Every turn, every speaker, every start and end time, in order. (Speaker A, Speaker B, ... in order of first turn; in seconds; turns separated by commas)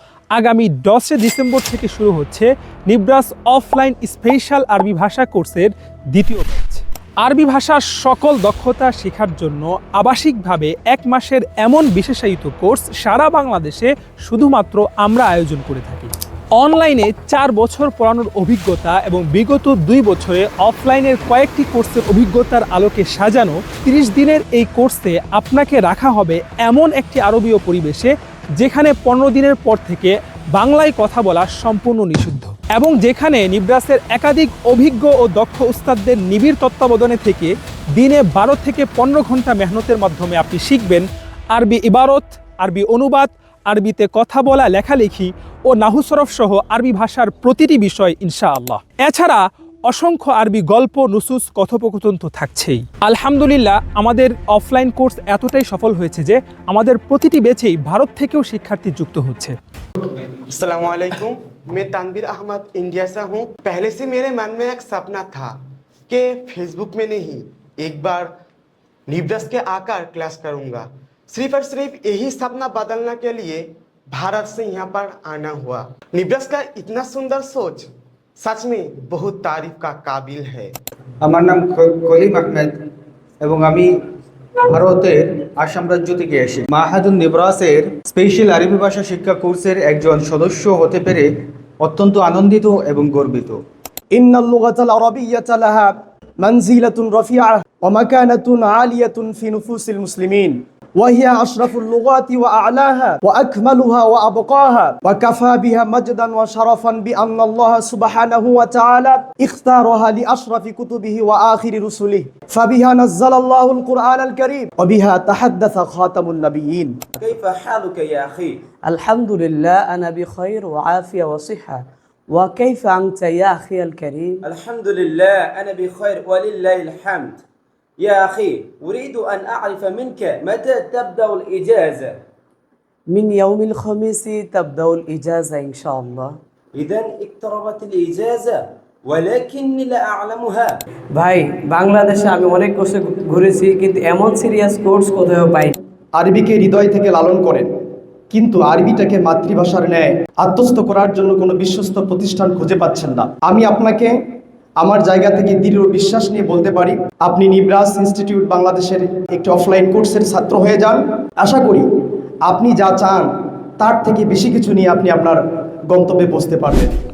Speaker A: 0.3-59.5, Speaker B: 60.5-65.5, Speaker B: 66.1-68.3, Speaker B: 69.1-77.9, Speaker B: 78.4-80.7, Speaker C: 81.2-82.8, Speaker C: 83.4-83.9, Speaker C: 84.7-91.3, Speaker C: 91.8-93.6, Speaker D: 94.1-117.0, Speaker E: 117.2-118.6, Speaker F: 118.9-124.4, Speaker E: 124.4-127.4, Speaker E: 128.0-132.2, Speaker F: 133.1-136.3, Speaker E: 136.8-140.7, Speaker F: 141.1-145.8, Speaker D: 146.2-147.7, Speaker D: 148.3-154.2, Speaker D: 154.8-161.9, Speaker D: 162.5-166.9